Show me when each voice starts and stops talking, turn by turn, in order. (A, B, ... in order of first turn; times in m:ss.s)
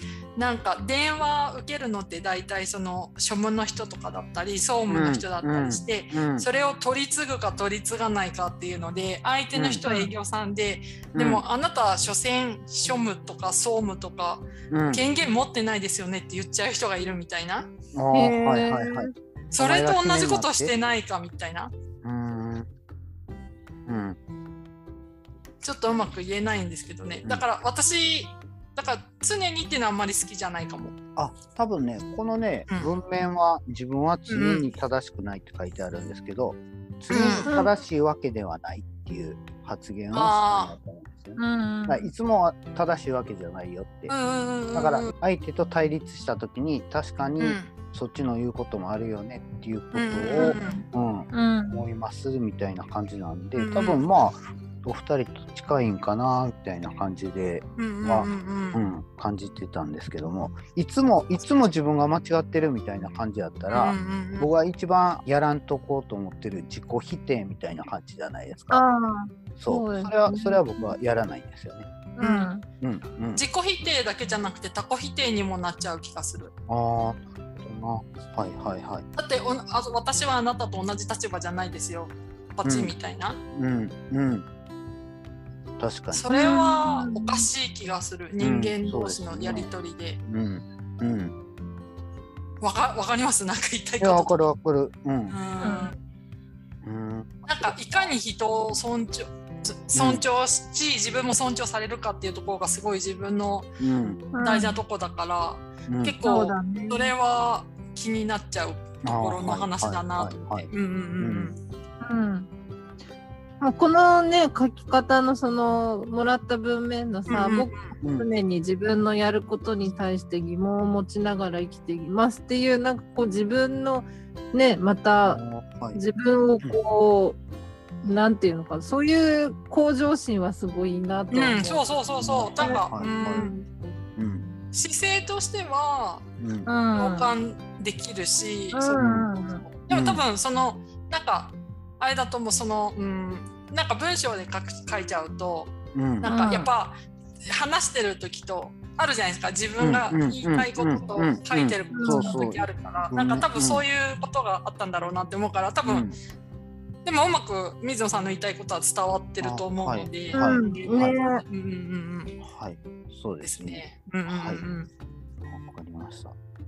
0:00.4-0:17.7 A
0:04.9-0:06.5 B
0:09.5-0:09.8 B
0:09.8-0:10.1 C
0:11.1-0:11.4 B
0:14.7-0:15.0 B
0:17.9-0:20.7 B
0:18.1-0:19.1 C
0:19.5-0:21.7 A
0:22.0-0:22.7 B
0:23.9-0:24.2 B
0:25.6-0:31.0 A
0:31.2-0:44.1 B
0:34.3-0:34.6 A
0:37.1-0:37.5 A
0:37.4-0:37.7 C
0:40.1-0:40.7 A
0:41.4-0:42.1 C
0:44.1-0:45.1 A
0:44.7-1:08.8 B
0:47.4-0:47.7 A
0:49.9-0:50.8 A
0:50.4-0:51.8 C
0:53.6-0:54.0 A
0:57.8-0:58.8 A
1:03.7-1:04.5 A
1:08.7-1:10.9 C
1:09.6-1:11.9 B
1:12.2-1:12.6 C
1:12.2-1:12.5 A
1:12.8-1:13.4 B
1:13.3-1:16.5 A
1:16.7-1:19.0 B
1:19.2-1:23.4 A
1:22.6-1:23.0 B
1:23.5-1:24.4 B
1:25.8-1:26.3 B
1:26.1-1:30.2 A
1:26.3-1:27.5 C
1:28.4-1:29.7 B
1:30.2-1:31.3 B
1:32.6-1:34.4 A
1:34.0-1:35.4 B
1:35.3-1:35.9 A
1:35.6-1:35.9 C
1:36.8-1:38.1 B
1:37.5-1:43.7 A
1:40.0-1:40.2 B
1:43.8-1:44.2 B
1:44.3-1:44.8 C
1:44.4-1:51.6 A
1:45.9-1:46.2 B
1:46.2-1:47.1 C
1:49.0-1:51.5 B
1:52.0-1:52.5 C
1:53.6-2:05.4 C
1:57.3-1:57.9 A
1:58.0-1:58.3 B
2:05.3-2:06.0 B
2:05.9-2:07.4 C
2:08.0-2:11.8 C
2:11.3-2:13.6 A
2:12.2-2:13.5 B
2:12.6-2:13.6 C
2:14.2-2:14.5 B
2:14.7-2:16.3 A
2:16.4-2:16.7 B
2:16.7-2:17.3 C
2:17.0-2:27.0 A
2:18.7-2:19.6 C
2:19.0-2:19.3 B
2:19.9-2:20.2 B
2:26.0-2:26.3 B
2:26.2-2:26.7 C
2:27.5-2:36.1 A
2:29.8-2:33.8 B
2:31.9-2:32.4 C
2:35.8-2:36.1 B
2:37.0-2:42.4 A
2:39.4-2:41.2 B
2:40.3-2:41.4 C
2:42.4-2:44.6 B
2:43.4-2:44.9 A
2:45.5-2:46.4 B